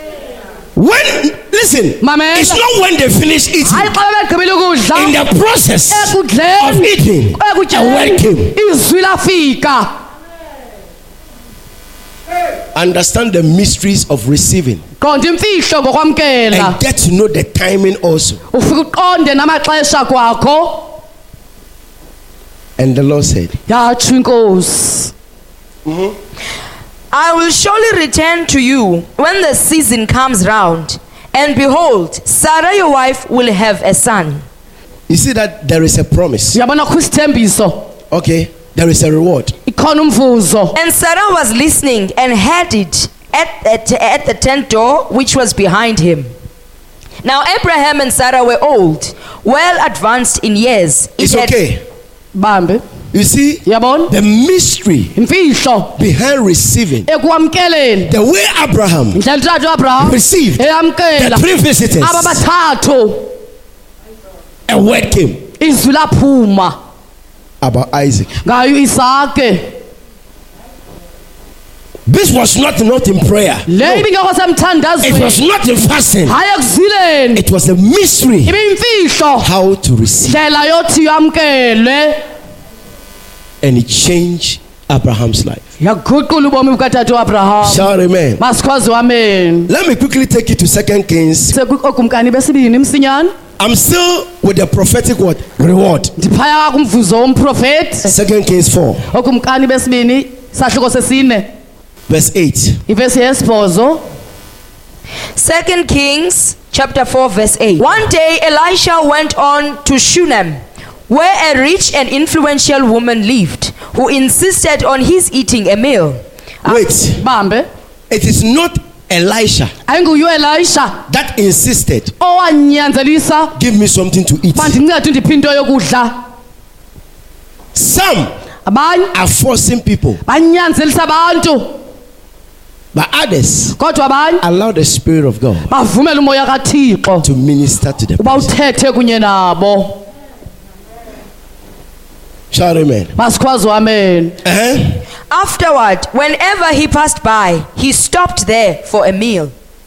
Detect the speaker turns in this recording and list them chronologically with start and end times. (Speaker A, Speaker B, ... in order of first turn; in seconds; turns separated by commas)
Speaker A: 0.8-3.9, Speaker B: 2.0-2.6, Speaker B: 3.6-5.2, Speaker A: 4.9-8.5, Speaker B: 5.9-9.9, Speaker A: 12.8-14.8, Speaker B: 15.0-16.8, Speaker A: 16.5-18.4, Speaker B: 18.5-20.9, Speaker A: 22.8-23.5, Speaker B: 23.7-25.1, Speaker A: 25.9-26.1, Speaker C: 27.1-34.4, Speaker A: 35.1-36.6, Speaker B: 36.5-37.9, Speaker A: 38.1-39.5, Speaker B: 39.7-40.7, Speaker C: 40.8-46.3, Speaker C: 47.2-51.5, Speaker A: 51.2-51.8, Speaker B: 52.4-52.8, Speaker A: 53.1-55.1, Speaker B: 53.7-54.1, Speaker B: 55.2-56.0, Speaker A: 56.0-57.1, Speaker B: 57.1-58.1, Speaker A: 58.1-59.2, Speaker B: 59.1-61.4, Speaker A: 60.0-60.6, Speaker A: 61.2-62.4, Speaker B: 62.0-63.3, Speaker A: 64.7-65.4, Speaker B: 65.6-66.8, Speaker A: 67.6-68.3, Speaker B: 68.4-69.7, Speaker A: 72.1-74.1, Speaker B: 73.7-75.4, Speaker A: 75.0-76.4, Speaker B: 76.3-77.4, Speaker A: 77.3-78.5, Speaker B: 78.5-79.5, Speaker A: 79.4-80.4, Speaker B: 80.3-82.2, Speaker A: 83.6-85.6, Speaker B: 85.8-87.9, Speaker A: 87.6-88.4, Speaker B: 88.4-89.7, Speaker A: 89.7-91.5, Speaker B: 91.5-93.3, Speaker A: 93.6-96.1, Speaker B: 96.2-98.1, Speaker A: 98.1-99.0, Speaker B: 99.1-101.5, Speaker A: 102.1-102.8, Speaker B: 102.9-104.0, Speaker C: 105.3-116.2, Speaker A: 116.7-117.2, Speaker B: 116.7-117.7, Speaker A: 118.1-119.7, Speaker B: 119.9-121.0, Speaker A: 121.1-122.1, Speaker B: 122.2-123.5, Speaker A: 123.6-124.8, Speaker B: 124.5-126.2, Speaker A: 127.7-128.3, Speaker B: 128.7-129.1, Speaker A: 129.1-130.2, Speaker B: 130.3-131.8, Speaker A: 132.9-133.8, Speaker B: 133.8-134.4, Speaker A: 134.4-135.7, Speaker B: 135.7-137.3, Speaker A: 137.2-138.5, Speaker B: 138.2-140.0, Speaker A: 142.5-143.1, Speaker B: 143.2-144.4, Speaker A: 144.4-145.0, Speaker C: 145.3-149.5